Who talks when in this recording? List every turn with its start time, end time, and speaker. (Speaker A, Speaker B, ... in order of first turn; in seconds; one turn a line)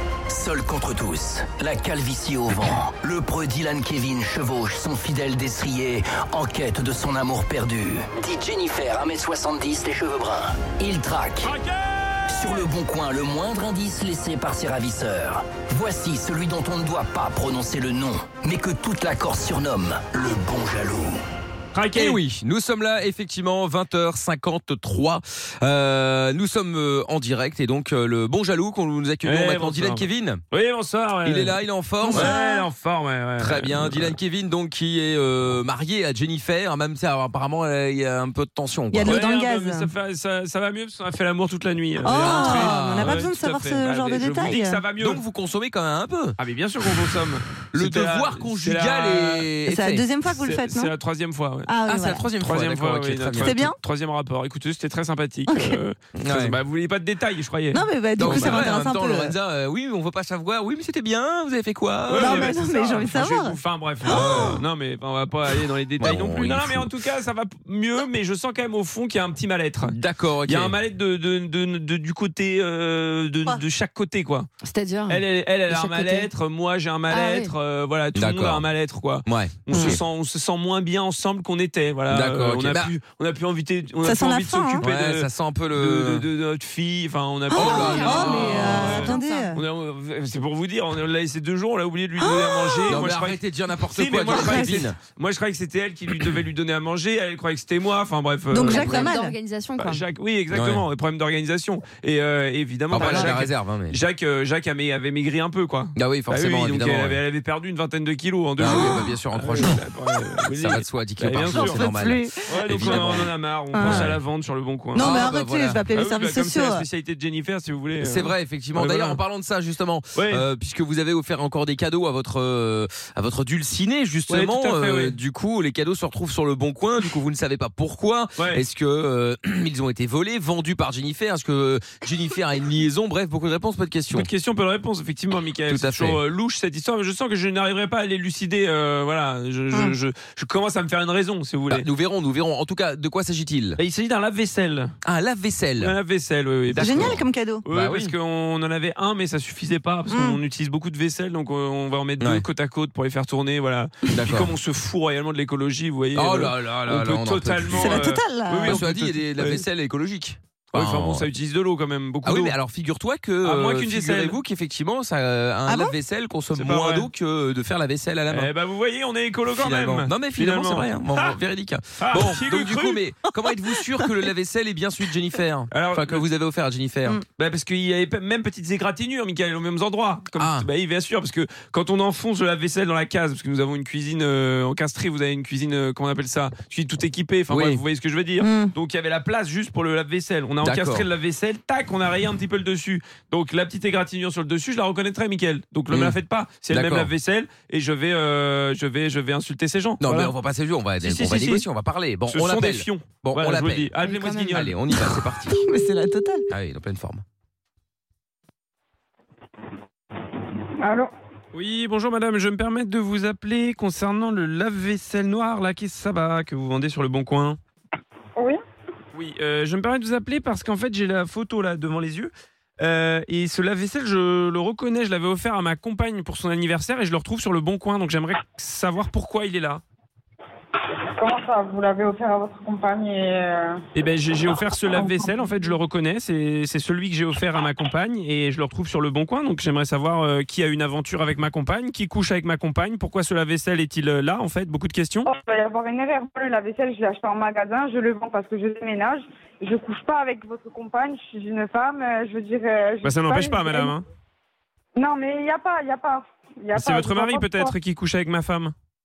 Speaker A: 0.3-11.5
Speaker B: 11.4-12.7
Speaker A: 12.3-21.2
Speaker B: 21.7-22.2
Speaker C: 21.9-30.4
Speaker B: 29.2-31.5
Speaker C: 31.2-32.4
Speaker D: 32.0-32.6
Speaker B: 32.1-34.1
Speaker C: 33.4-39.3
Speaker D: 38.9-39.9
Speaker B: 39.0-45.2
Speaker D: 42.0-44.8
Speaker C: 42.1-43.3
Speaker C: 45.0-46.4
Speaker B: 46.4-49.5
Speaker C: 47.7-50.0
Speaker D: 49.7-50.9
Speaker B: 50.3-51.7
Speaker D: 51.7-52.3
Speaker C: 51.9-53.7
Speaker B: 52.4-58.7
Speaker D: 53.4-53.8
Speaker D: 55.5-55.8
Speaker C: 56.1-56.6
Speaker D: 57.7-59.3
Speaker C: 58.2-62.5
Speaker B: 62.1-74.5
Speaker D: 62.1-64.6
Speaker C: 64.1-64.6
Speaker C: 66.0-66.9
Speaker C: 69.8-70.8
Speaker E: 74.6-76.3
Speaker B: 75.1-93.4
Speaker E: 77.1-77.5
Speaker C: 78.2-78.7
Speaker C: 79.2-80.0
Speaker D: 79.7-80.0
Speaker C: 82.1-82.9
Speaker D: 84.0-84.8
Speaker C: 84.8-86.3
Speaker D: 87.5-89.6
Speaker C: 87.5-89.0
Speaker E: 87.7-89.5
Speaker D: 92.2-93.1
Speaker C: 92.9-95.0
Speaker B: 93.9-99.1
Speaker D: 94.3-94.8
Speaker D: 98.5-99.3
Speaker E: 98.6-100.0
Speaker B: 99.8-111.9
Speaker C: 100.5-100.8
Speaker C: 102.9-104.0
Speaker D: 103.0-103.3
Speaker C: 106.0-107.2
Speaker C: 108.6-109.8
Speaker D: 108.6-109.1
Speaker C: 110.6-113.3
Speaker D: 111.5-114.1
Speaker B: 112.5-115.1
Speaker C: 113.8-114.2
Speaker D: 115.0-116.8
Speaker C: 115.0-115.8
Speaker B: 115.9-119.2
Speaker C: 118.0-134.3
Speaker B: 120.2-120.5
Speaker B: 124.3-125.2
Speaker B: 134.1-141.8
Speaker C: 135.7-136.2
Speaker C: 141.7-143.8
Speaker B: 143.8-145.0
Speaker C: 145.1-145.9
Speaker B: 145.8-159.6
Speaker D: 146.8-147.6
Speaker C: 146.8-148.1
Speaker D: 150.1-150.4
Speaker C: 154.1-154.6
Speaker C: 156.2-158.1
Speaker D: 157.7-158.9
Speaker C: 158.6-161.3
Speaker B: 160.7-162.6
Speaker C: 162.2-168.5
Speaker B: 163.4-164.4
Speaker D: 165.7-165.9
Speaker B: 166.6-167.1
Speaker B: 168.3-171.3
Speaker C: 169.5-177.2
Speaker B: 172.0-173.0
Speaker B: 175.7-176.2
Speaker B: 177.4-200.3
Speaker C: 180.4-180.7
Speaker C: 187.5-187.8
Speaker D: 188.4-188.7
Speaker C: 190.6-191.1
Speaker C: 195.9-196.2
Speaker C: 196.7-197.1
Speaker C: 200.0-203.9
Speaker B: 201.0-201.7
Speaker B: 202.3-204.8
Speaker E: 204.1-204.6
Speaker C: 204.5-205.6
Speaker D: 205.5-206.5
Speaker C: 206.5-207.2
Speaker F: 210.8-211.1
Speaker B: 211.5-217.6
Speaker B: 219.1-229.8
Speaker F: 231.2-233.8
Speaker B: 233.9-245.3
Speaker F: 234.7-235.8
Speaker F: 245.2-254.0
Speaker B: 253.0-254.0
Speaker F: 255.0-257.7
Speaker B: 256.8-258.7